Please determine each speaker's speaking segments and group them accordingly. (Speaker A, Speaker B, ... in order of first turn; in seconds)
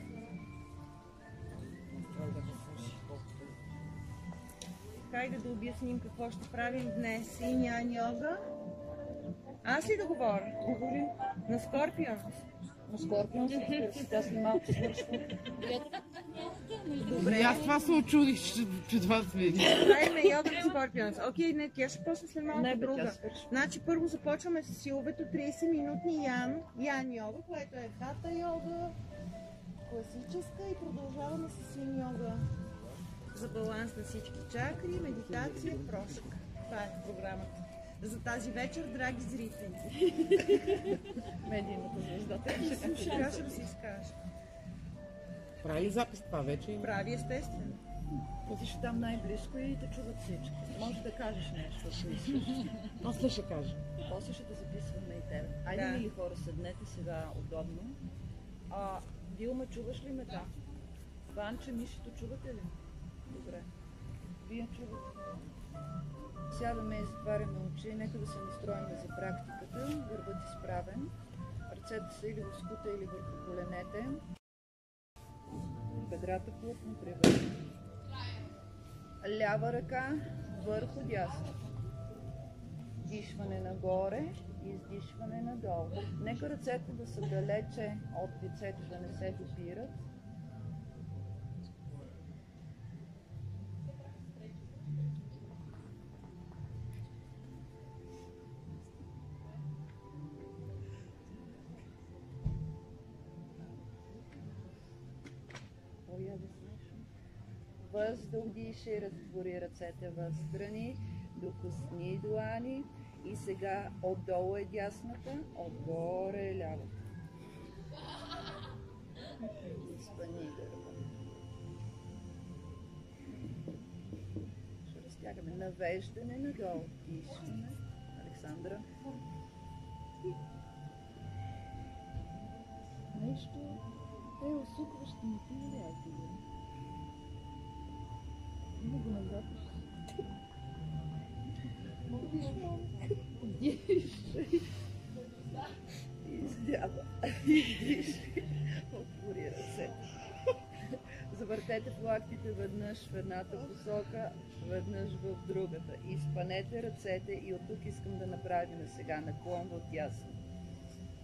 Speaker A: 2.0-3.1, 17.0-20.0, 35.1-36.0, 45.6-46.9, 52.8-53.8
Speaker B: 5.0-8.4, 9.6-12.3, 16.7-17.8, 19.6-28.9, 29.8-32.5, 33.3-40.9, 42.5-44.1, 46.8-47.8, 55.7-56.0
Speaker C: 12.9-15.3, 22.5-23.5, 40.2-43.7, 48.4-52.7, 54.0-58.0, 58.7-60.5, 61.3-62.8, 63.3-63.7, 64.4-65.3, 66.5-71.1, 71.7-74.2, 76.0-77.6, 79.2-81.5, 83.0-89.9, 106.1-107.1, 107.8-116.9, 119.4-121.0, 124.8-128.9, 133.1-133.8, 134.4-136.4, 138.8-139.5, 142.1-144.6, 146.2-150.1, 150.9-160.4